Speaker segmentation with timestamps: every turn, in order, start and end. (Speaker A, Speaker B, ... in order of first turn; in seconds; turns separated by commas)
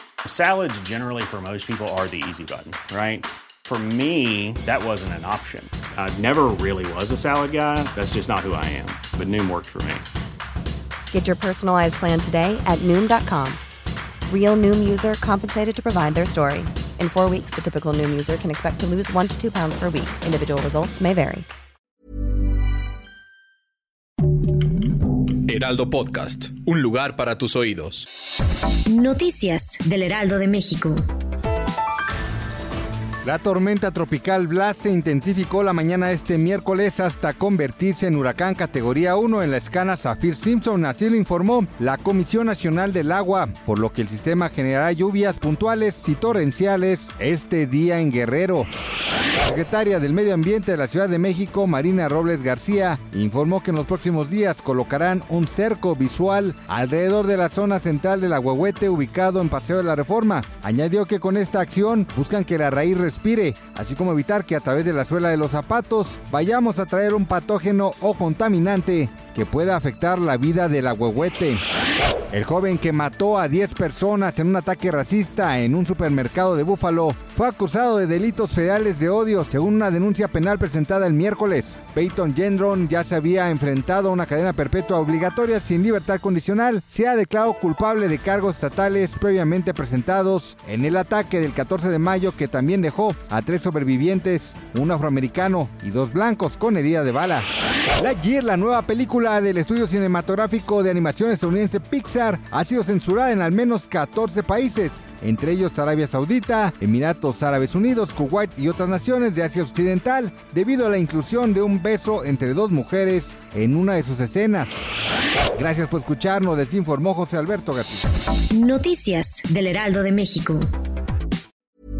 Speaker A: 0.2-10.0, Speaker B: 11.1-13.6, Speaker B: 14.3-21.4, Speaker C: 25.4-28.1, Speaker D: 28.9-31.0, Speaker E: 33.2-48.7, Speaker E: 49.4-71.6, Speaker E: 72.3-97.5, Speaker E: 98.0-114.8, Speaker E: 115.5-118.1, Speaker D: 118.4-120.7